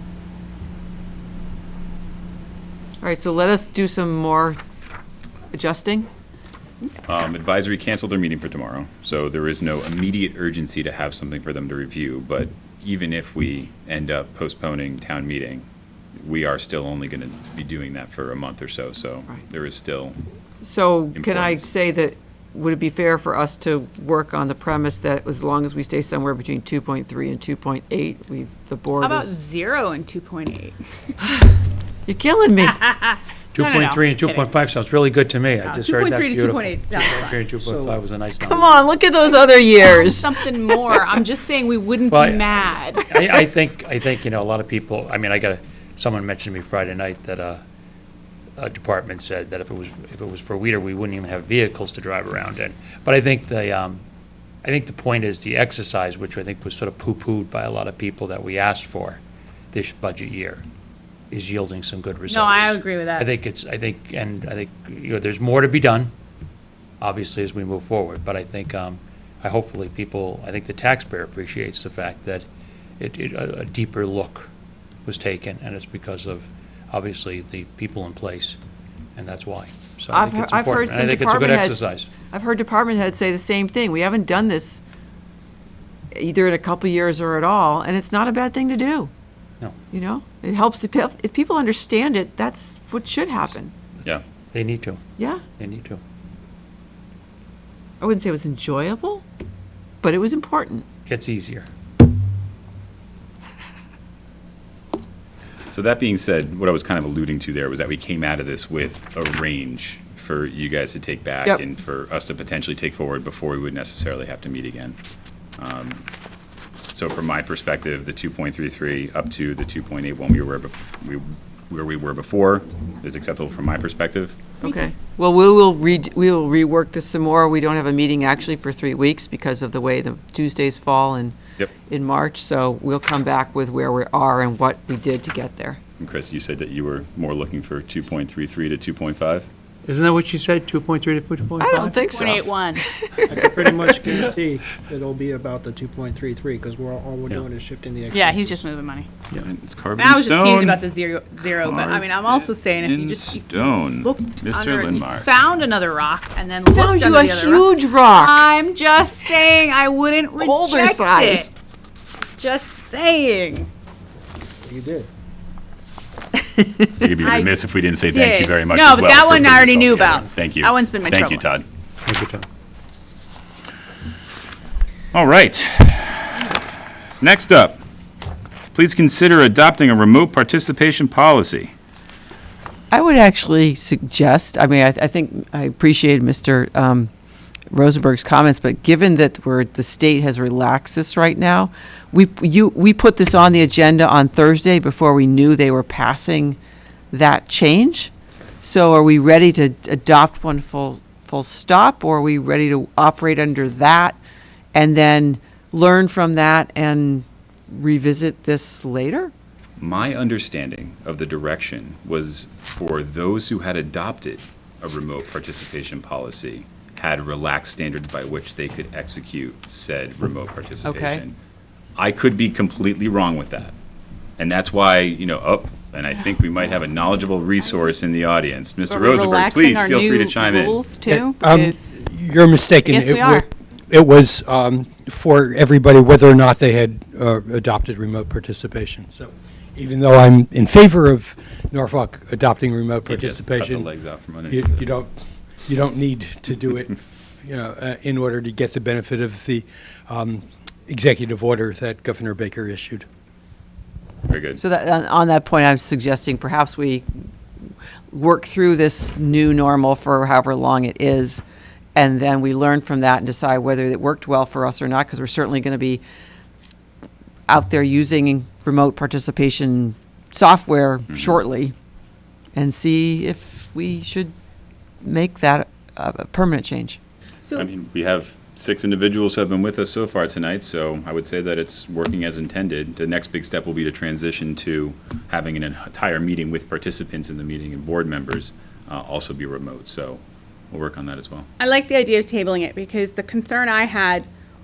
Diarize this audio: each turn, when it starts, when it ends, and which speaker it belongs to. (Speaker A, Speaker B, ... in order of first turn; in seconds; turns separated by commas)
Speaker A: 3.0-4.6, Speaker A: 5.5-6.1, Speaker B: 7.1-15.7, Speaker B: 16.2-20.2, Speaker A: 20.6-29.4, Speaker B: 21.1-21.7, Speaker C: 29.0-30.8, Speaker A: 32.1-32.9, Speaker C: 32.7-34.5, Speaker D: 33.5-38.7, Speaker C: 35.7-37.4, Speaker E: 37.6-38.0, Speaker A: 38.4-41.1, Speaker C: 39.8-43.4, Speaker D: 42.1-47.6, Speaker D: 48.6-54.0, Speaker D: 54.6-59.2, Speaker D: 59.7-60.6, Speaker D: 61.3-66.1, Speaker C: 62.3-63.3, Speaker D: 67.0-72.5, Speaker D: 73.0-74.5, Speaker D: 75.0-78.6, Speaker D: 79.2-82.1, Speaker A: 80.1-84.8, Speaker A: 86.1-89.1, Speaker A: 89.9-93.7, Speaker D: 94.5-95.0, Speaker A: 95.2-95.4, Speaker D: 95.6-96.0, Speaker A: 98.0-99.3, Speaker A: 100.0-100.9, Speaker D: 101.1-101.7, Speaker B: 105.7-115.0, Speaker B: 115.6-116.1, Speaker B: 116.9-124.4, Speaker A: 124.6-135.8, Speaker B: 136.0-139.5, Speaker D: 139.8-142.0, Speaker A: 141.6-143.3, Speaker C: 142.1-142.9, Speaker B: 142.2-142.4, Speaker E: 143.3-148.7, Speaker C: 148.1-149.2, Speaker B: 149.4-155.4, Speaker C: 150.0-153.4, Speaker C: 154.0-161.5, Speaker A: 156.7-158.5, Speaker A: 160.4-161.5, Speaker C: 162.4-163.7, Speaker E: 164.7-165.1, Speaker B: 167.0-171.7, Speaker C: 167.2-167.6, Speaker C: 168.1-171.5, Speaker D: 172.1-172.5, Speaker B: 175.1-176.6, Speaker B: 177.2-177.8, Speaker B: 178.7-181.7, Speaker A: 182.9-187.1, Speaker A: 187.7-196.6, Speaker A: 197.1-198.1, Speaker A: 198.6-204.2, Speaker A: 204.7-209.3, Speaker B: 209.8-221.4, Speaker A: 220.8-221.2, Speaker B: 222.0-223.8, Speaker B: 224.4-230.8, Speaker C: 228.8-232.0, Speaker F: 231.1-243.9, Speaker C: 232.8-233.5, Speaker B: 243.1-244.9, Speaker F: 244.5-253.1, Speaker B: 254.3-254.6, Speaker A: 254.6-257.1, Speaker A: 258.1-261.4, Speaker A: 262.0-266.0, Speaker A: 267.5-271.8, Speaker A: 272.6-274.3, Speaker A: 275.0-277.0, Speaker B: 277.5-291.5, Speaker C: 291.6-294.3